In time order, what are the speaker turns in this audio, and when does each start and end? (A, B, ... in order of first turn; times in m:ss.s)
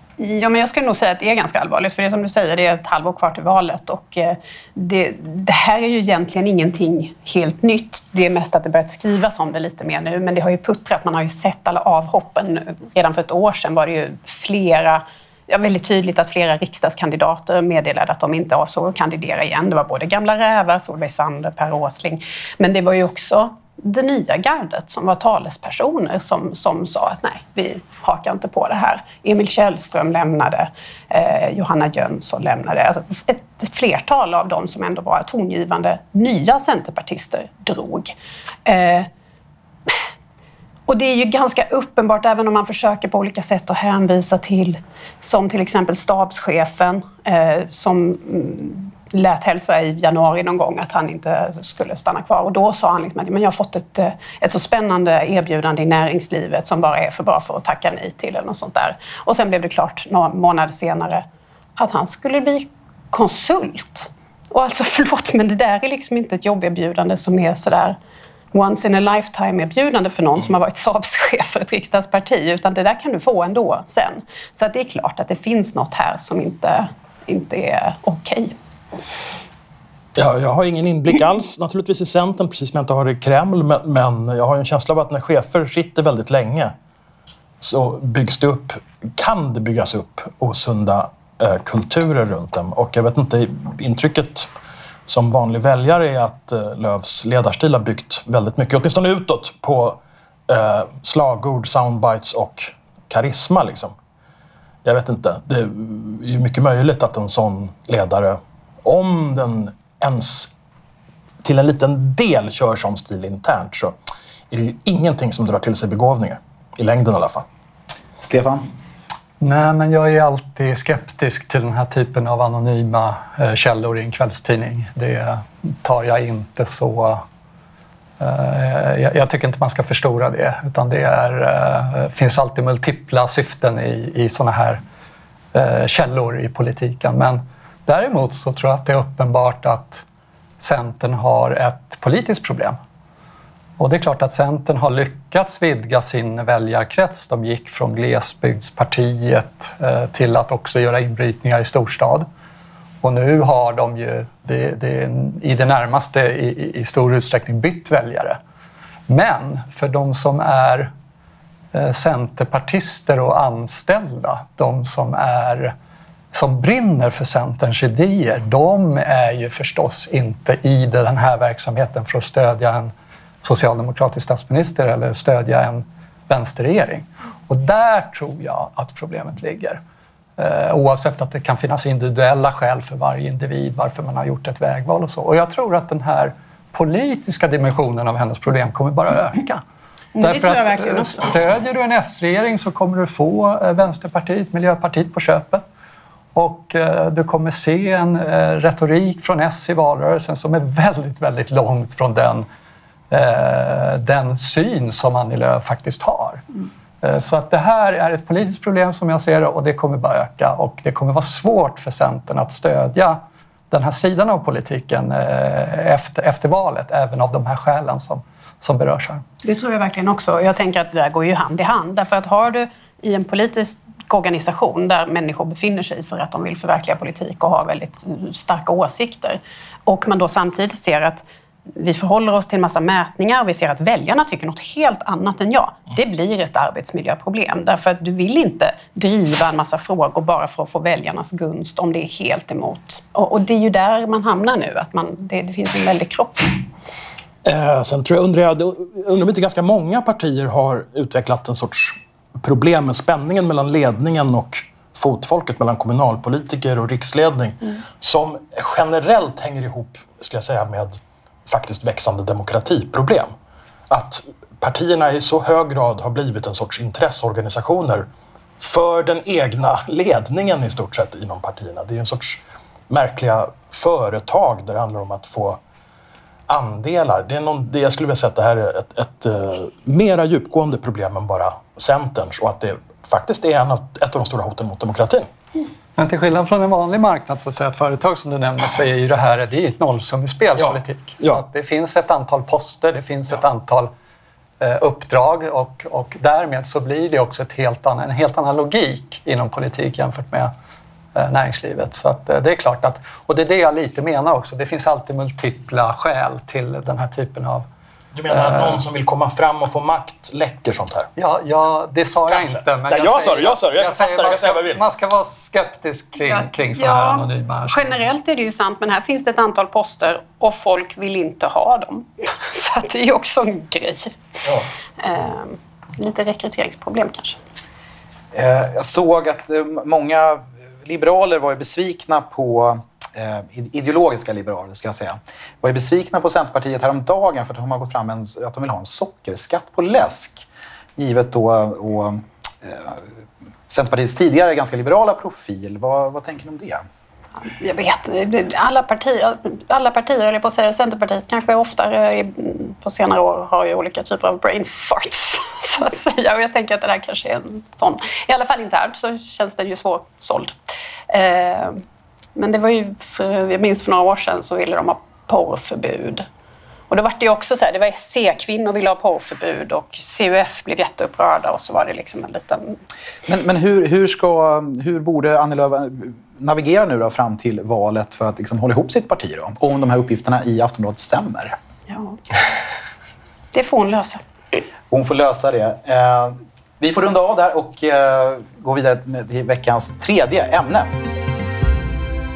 0:00.2-0:38.1 A
0:38.6-0:39.1 A
0:40.9-1:01.2 A
1:01.8-1:08.0 A
1:08.5-1:18.5 A
1:20.2-1:26.7 B
1:27.6-1:34.5 B
1:35.1-1:43.9 B
1:44.8-1:50.5 B
1:51.4-1:53.9 B
1:54.5-1:57.4 B
1:58.2-1:58.7 C
1:59.4-2:07.2 D
2:08.2-2:14.8 D
2:15.5-2:20.0 D
2:20.6-2:22.8 D
2:23.8-2:32.3 D
2:33.0-2:38.4 D
2:39.1-2:40.9 D
2:41.7-2:45.7 D
2:46.3-2:52.9 D
2:53.4-2:59.8 D
3:00.4-3:09.6 D
3:10.1-3:11.3 A
3:10.2-3:15.6 D
3:16.3-3:22.5 D
3:23.1-3:26.4 D
3:27.0-3:39.2 D
3:39.4-3:51.2 A
3:51.7-4:06.6 A
4:07.4-4:23.3 B
4:23.9-4:28.0 B
4:28.6-4:35.6 B
4:36.5-4:45.3 B
4:46.0-4:53.9 D
4:50.6-4:51.4 B
4:54.6-5:00.5 D
5:01.1-5:07.6 D
5:08.1-5:11.1 B
5:08.3-5:08.8 D
5:11.2-5:18.0 D
5:12.3-5:14.8 B
5:16.3-5:24.4 A
5:25.0-5:27.4 A
5:28.3-5:43.0 C
5:43.7-5:46.8 C
5:47.4-6:00.6 A
6:01.1-6:01.8 A
6:02.4-6:06.2 A
6:06.9-6:12.8 A
6:13.3-6:21.5 C
6:21.9-6:22.2 A
6:23.5-6:24.2 A
6:24.9-6:30.9 C